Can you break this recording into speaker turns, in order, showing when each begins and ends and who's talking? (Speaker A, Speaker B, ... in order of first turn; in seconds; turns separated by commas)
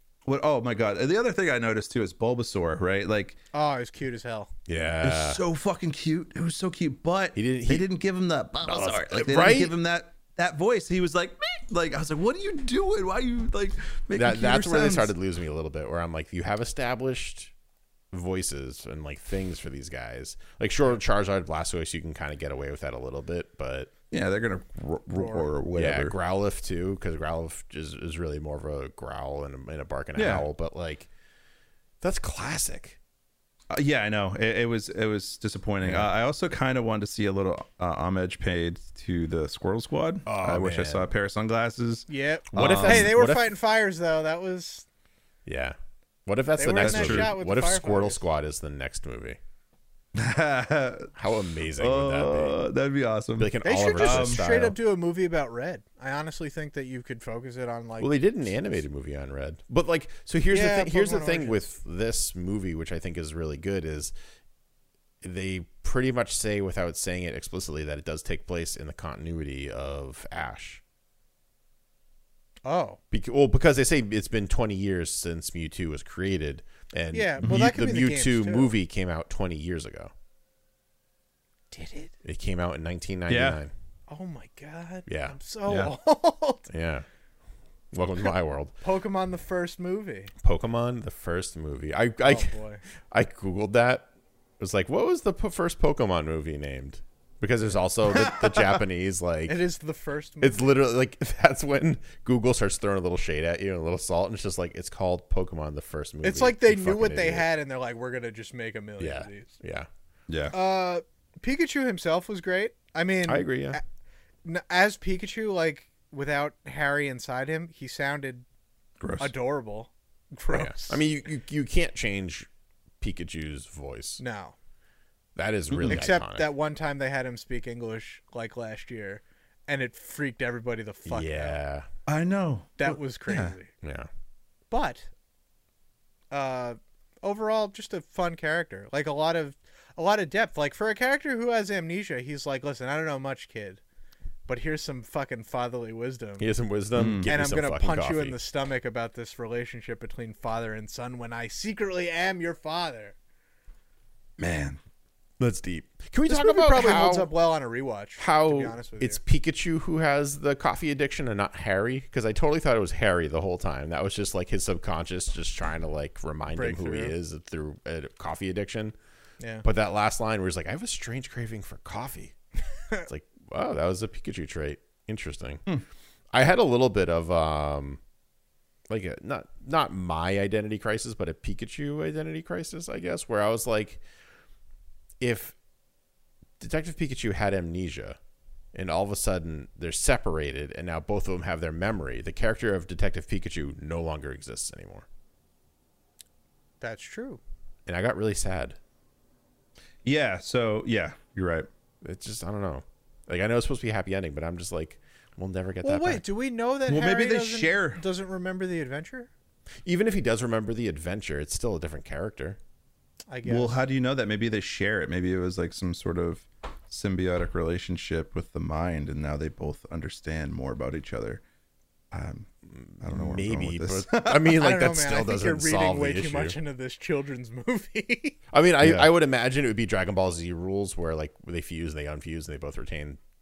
Speaker A: 0.2-3.4, Speaker B: 3.5-4.5, Speaker C: 4.7-5.4, Speaker A: 5.0-15.1, Speaker C: 7.3-7.9, Speaker C: 8.6-9.7, Speaker C: 14.1-17.5, Speaker C: 18.1-23.9, Speaker A: 24.1-26.1, Speaker B: 25.1-25.5, Speaker C: 25.7-31.1, Speaker A: 30.1-30.4, Speaker C: 32.0-33.0, Speaker A: 33.7-43.1, Speaker C: 35.8-36.1, Speaker C: 40.2-41.1, Speaker B: 42.1-44.9, Speaker C: 42.5-43.5, Speaker C: 45.5-49.4, Speaker B: 46.6-48.2, Speaker A: 46.8-47.3, Speaker A: 50.1-54.4, Speaker C: 51.1-52.6, Speaker C: 53.4-54.8, Speaker B: 53.6-58.1, Speaker C: 58.0-64.1, Speaker B: 60.5-61.6, Speaker C: 65.2-70.8, Speaker B: 72.6-73.0, Speaker C: 73.1-80.1, Speaker B: 77.1-78.7, Speaker A: 77.4-77.7, Speaker B: 81.7-82.1, Speaker C: 82.2-83.7, Speaker A: 83.3-83.6, Speaker B: 84.1-86.7, Speaker C: 85.1-85.3, Speaker A: 85.7-85.9, Speaker C: 86.7-87.0, Speaker C: 87.9-88.8, Speaker B: 88.8-90.3, Speaker C: 90.4-92.5, Speaker B: 92.2-92.8, Speaker C: 93.1-94.1, Speaker C: 94.6-99.6, Speaker A: 98.1-98.7, Speaker B: 99.5-100.7, Speaker C: 100.4-107.5, Speaker B: 106.2-109.5, Speaker C: 109.0-109.9, Speaker A: 110.3-110.5, Speaker B: 110.5-113.8, Speaker C: 113.2-113.8, Speaker B: 114.4-118.4, Speaker A: 119.0-119.3, Speaker B: 119.2-121.0, Speaker C: 120.5-122.5, Speaker C: 123.0-124.2, Speaker B: 124.2-124.5, Speaker C: 125.3-126.5, Speaker B: 125.8-131.6, Speaker C: 131.1-131.9, Speaker A: 132.1-133.6, Speaker B: 132.8-133.7, Speaker C: 133.8-134.1, Speaker B: 134.7-135.1, Speaker B: 136.3-143.8, Speaker B: 144.5-146.5, Speaker C: 146.4-148.4, Speaker A: 146.9-147.3, Speaker B: 147.3-153.1, Speaker A: 154.4-154.8, Speaker C: 155.4-157.3, Speaker B: 156.3-159.2, Speaker C: 158.2-168.9, Speaker B: 166.5-167.1, Speaker B: 169.4-169.7, Speaker C: 169.6-172.3, Speaker C: 173.1-175.6, Speaker C: 176.3-178.0, Speaker C: 178.9-184.0, Speaker C: 185.2-185.6, Speaker C: 186.6-188.2, Speaker C: 188.7-195.1, Speaker B: 196.8-197.4, Speaker C: 197.9-198.8, Speaker A: 200.0-201.7, Speaker C: 202.0-206.2, Speaker B: 205.8-209.3, Speaker A: 206.9-208.0, Speaker C: 209.8-212.6, Speaker B: 213.3-213.8, Speaker A: 213.4-221.4, Speaker A: 222.1-222.5, Speaker C: 222.7-226.6, Speaker A: 223.0-224.6, Speaker B: 224.5-228.4, Speaker C: 228.5-233.2, Speaker A: 228.8-229.1